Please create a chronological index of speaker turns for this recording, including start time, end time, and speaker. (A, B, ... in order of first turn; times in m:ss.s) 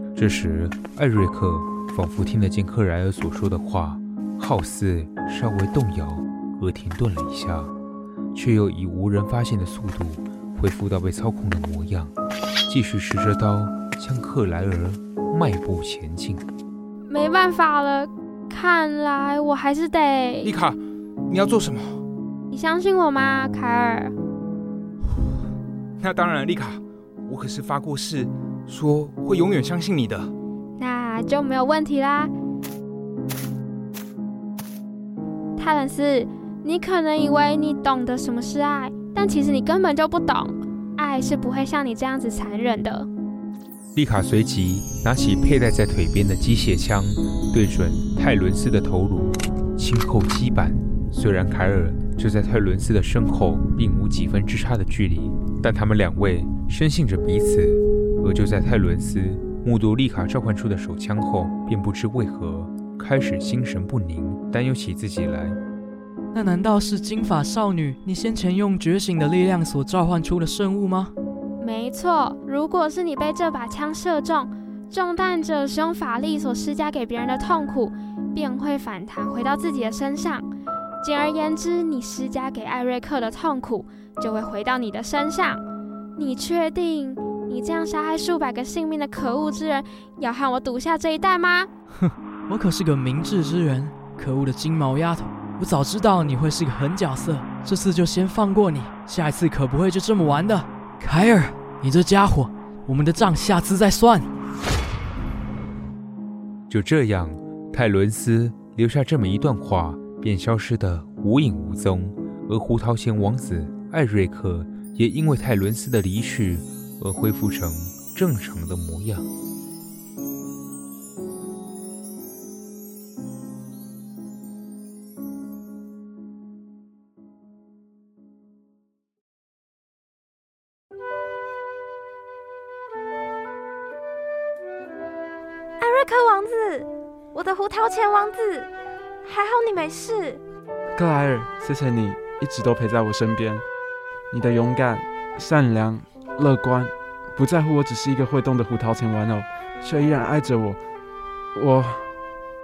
0:00.1-0:07.7 A
0:08.3-0:12.1 A
0:12.7-0:16.5 A
0:17.1-0:20.5 B
0:20.4-0:20.8 C
0:21.3-0:22.0 C
0:22.5-0:24.1 B
0:26.0-0:30.3 C
0:30.8-0:32.3 B
0:35.6-0:43.1 B
0:43.9-1:05.6 A
1:06.3-1:11.1 D
1:11.6-1:20.5 B
1:21.0-1:25.6 B
1:26.2-1:31.7 B
1:32.0-1:44.3 D
1:46.7-1:59.3 A
2:15.8-2:18.7 E
2:19.2-2:20.4 E
2:21.0-2:23.6 F
2:24.3-2:30.8 F
2:31.5-2:32.1 F